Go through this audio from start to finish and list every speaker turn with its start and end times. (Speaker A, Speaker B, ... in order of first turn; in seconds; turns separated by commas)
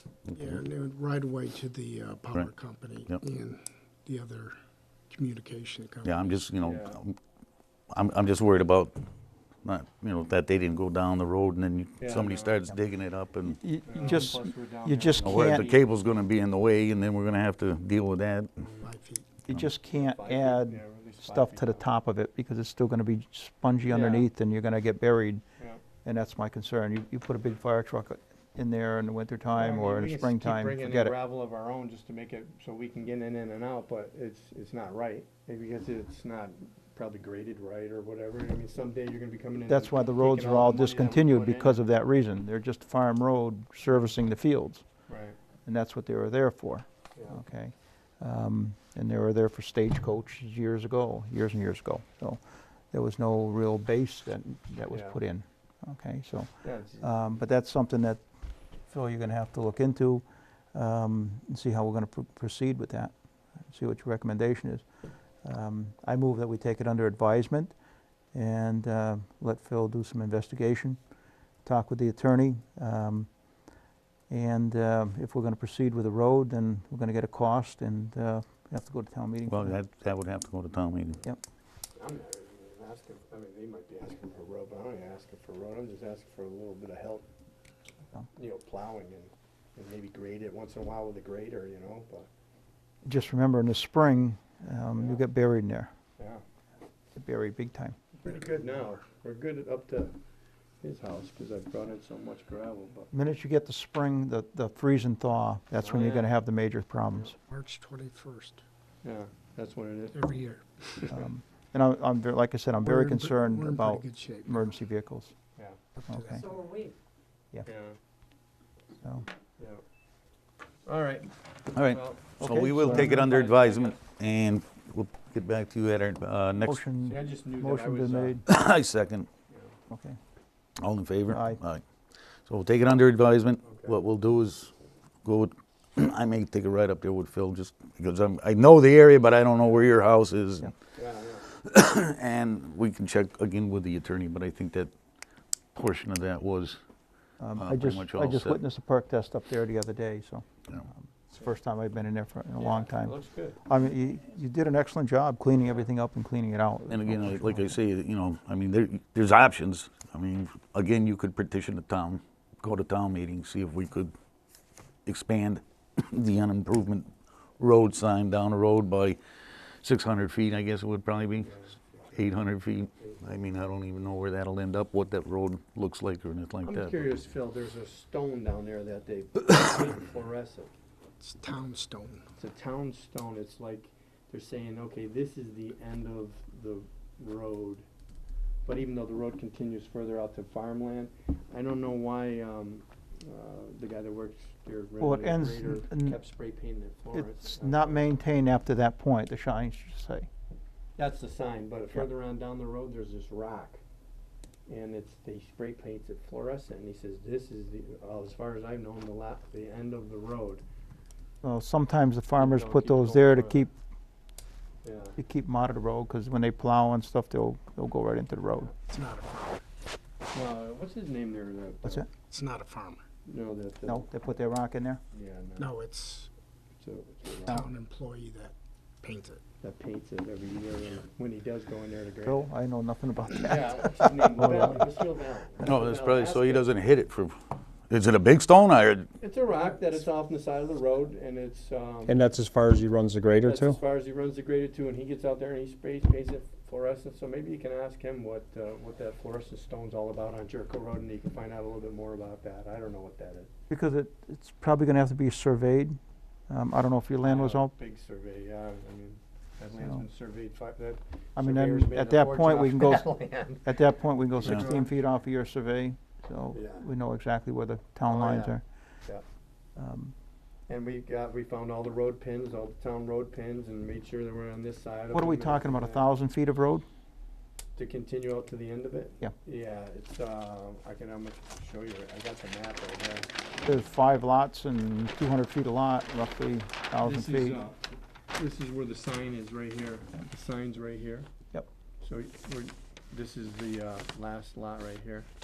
Speaker A: 0.3-0.6, Speaker B: 0.3-4.5, Speaker B: 5.1-6.2, Speaker A: 6.0-7.2, Speaker C: 6.6-7.0, Speaker A: 7.9-8.9, Speaker A: 9.6-13.6, Speaker C: 12.0-12.6, Speaker D: 13.4-15.7, Speaker C: 13.9-15.8, Speaker A: 15.2-18.6, Speaker B: 18.8-19.3, Speaker D: 19.5-25.4, Speaker C: 19.9-21.9, Speaker C: 23.9-24.3, Speaker D: 26.0-31.1, Speaker C: 29.5-41.8, Speaker D: 39.7-45.1, Speaker C: 45.1-45.4, Speaker D: 45.6-58.3, Speaker C: 54.9-55.2, Speaker C: 56.6-57.1, Speaker D: 58.8-64.9, Speaker D: 65.4-67.8, Speaker D: 68.3-71.0, Speaker D: 71.6-73.8, Speaker D: 74.3-79.8, Speaker A: 79.5-81.2, Speaker C: 82.0-87.3, Speaker C: 88.3-92.3, Speaker D: 93.0-95.9, Speaker C: 95.0-95.2, Speaker D: 97.2-98.1, Speaker C: 98.2-100.2, Speaker C: 100.8-103.1, Speaker D: 103.1-107.4, Speaker C: 105.8-106.3, Speaker B: 107.4-108.6, Speaker C: 109.0-110.4, Speaker B: 110.1-111.1, Speaker D: 111.1-115.3, Speaker B: 112.8-114.8, Speaker B: 116.0-116.6, Speaker D: 116.1-116.5, Speaker E: 116.5-116.9, Speaker C: 117.7-118.0, Speaker C: 120.8-124.0, Speaker A: 121.7-126.8, Speaker D: 122.4-123.2, Speaker D: 126.6-128.5, Speaker C: 127.0-128.4, Speaker A: 128.5-129.3, Speaker C: 129.5-129.8, Speaker D: 129.9-130.2, Speaker A: 130.8-131.8, Speaker D: 131.3-131.6, Speaker A: 132.5-134.7, Speaker C: 133.6-134.0, Speaker A: 135.2-140.7, Speaker C: 140.9-141.5, Speaker A: 141.5-144.9, Speaker A: 145.7-146.8, Speaker D: 147.4-157.7, Speaker A: 147.6-148.6, Speaker C: 152.6-153.6, Speaker A: 156.9-164.1, Speaker A: 165.1-169.2, Speaker A: 169.8-171.6, Speaker C: 171.4-172.0, Speaker A: 172.1-177.0, Speaker C: 176.7-180.7, Speaker B: 181.2-182.2, Speaker C: 182.4-187.9, Speaker C: 188.7-198.2, Speaker D: 195.0-196.2, Speaker D: 197.1-200.3, Speaker C: 201.0-203.8, Speaker C: 204.7-210.6, Speaker D: 211.4-213.7, Speaker C: 212.4-213.7, Speaker C: 214.8-215.2, Speaker D: 215.2-218.7, Speaker B: 218.9-219.6, Speaker C: 220.3-222.1, Speaker B: 222.3-223.0, Speaker C: 223.3-224.1, Speaker D: 223.9-225.0, Speaker C: 225.1-225.7, Speaker B: 225.6-226.3, Speaker C: 226.8-227.7, Speaker B: 227.5-229.4, Speaker C: 229.6-232.5, Speaker D: 232.2-234.9, Speaker C: 233.3-236.7, Speaker A: 235.6-237.4, Speaker A: 237.9-239.1, Speaker C: 239.2-242.2, Speaker E: 242.1-243.8, Speaker C: 243.4-253.5, Speaker D: 253.7-256.0, Speaker D: 256.5-257.7, Speaker C: 257.2-263.7, Speaker D: 259.8-260.1, Speaker D: 261.4-268.6, Speaker C: 264.4-264.9, Speaker C: 266.5-266.9, Speaker C: 268.1-269.2, Speaker D: 269.8-270.1, Speaker C: 270.7-276.1, Speaker D: 275.1-276.9, Speaker C: 277.8-283.3, Speaker D: 283.6-287.6, Speaker C: 287.0-287.8, Speaker C: 288.4-291.3, Speaker C: 292.0-295.3